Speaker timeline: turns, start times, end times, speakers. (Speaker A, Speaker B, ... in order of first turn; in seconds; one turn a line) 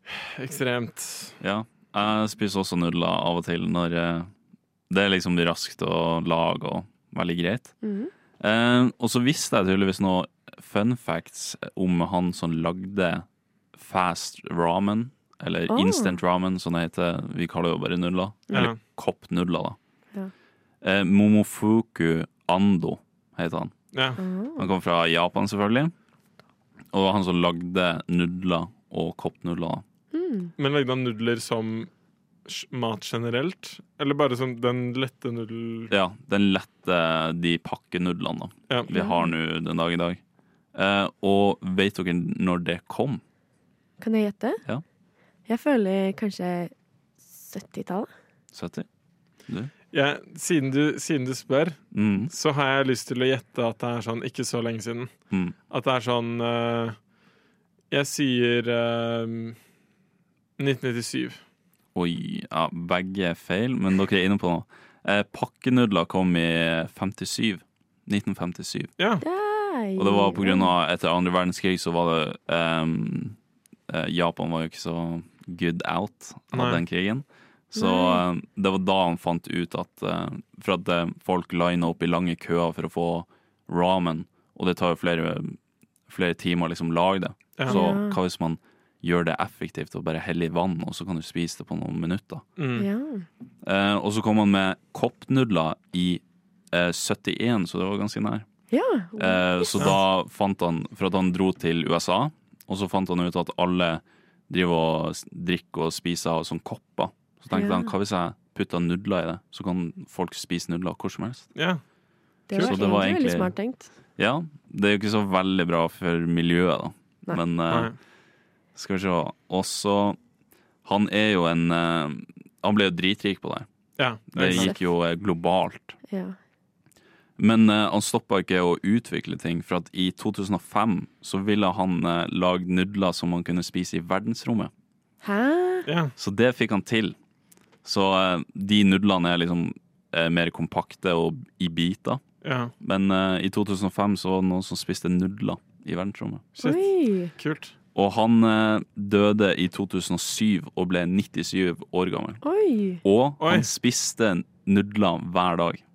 Speaker A: 0.2-1.3
Speaker B: 1.4-4.3
Speaker B: 4.9-7.7
Speaker C: 7.8-8.1
Speaker B: 8.4-13.2
Speaker B: 13.8-19.8
Speaker C: 15.7-16.1
Speaker A: 18.5-18.8
Speaker B: 20.8-23.7
Speaker A: 23.9-24.2
Speaker C: 24.2-24.7
Speaker B: 24.6-25.9
Speaker B: 26.9-29.8
Speaker C: 30.1-30.5
Speaker A: 30.6-31.9
Speaker A: 32.5-35.9
Speaker B: 35.9-40.2
Speaker A: 38.7-38.9
Speaker C: 38.9-39.3
Speaker B: 40.7-43.2
Speaker C: 44.0-44.6
Speaker C: 45.5-46.7
Speaker C: 47.3-48.1
Speaker B: 48.5-48.9
Speaker A: 49.9-55.1
Speaker B: 51.9-52.3
Speaker B: 55.3-55.5
Speaker A: 55.7-57.0
Speaker A: 57.9-59.6
Speaker A: 60.6-61.4
Speaker B: 61.9-68.9
Speaker A: 69.0-69.2
Speaker C: 69.2-70.7
Speaker B: 70.0-73.3
Speaker B: 73.9-85.6
Speaker A: 76.5-76.8
Speaker C: 77.7-78.2
Speaker B: 86.1-92.4
Speaker A: 87.6-87.8
Speaker C: 87.6-88.2
Speaker A: 92.6-92.8
Speaker C: 92.8-93.3
Speaker B: 93.6-96.2
Speaker B: 96.7-98.4
Speaker C: 98.7-99.9
Speaker B: 99.2-111.5
Speaker C: 107.5-107.9
Speaker A: 111.5-111.8
Speaker C: 112.5-113.9
Speaker B: 112.5-113.5
Speaker A: 112.5-112.8
Speaker B: 114.2-117.9
Speaker B: 118.7-120.2
Speaker B: 120.8-123.7
Speaker A: 124.0-124.8
Speaker B: 124.3-125.9
Speaker C: 124.4-124.8
Speaker C: 126.1-126.3
Speaker B: 127.4-134.7
Speaker C: 135.2-135.9
Speaker A: 135.9-136.1
Speaker B: 136.2-137.1
Speaker B: 137.8-142.2
Speaker A: 142.4-142.7
Speaker B: 142.8-146.5
Speaker A: 146.6-147.7
Speaker C: 146.6-147.3
Speaker B: 147.9-152.4
Speaker C: 152.4-153.0
Speaker B: 153.0-155.8
Speaker A: 153.4-153.7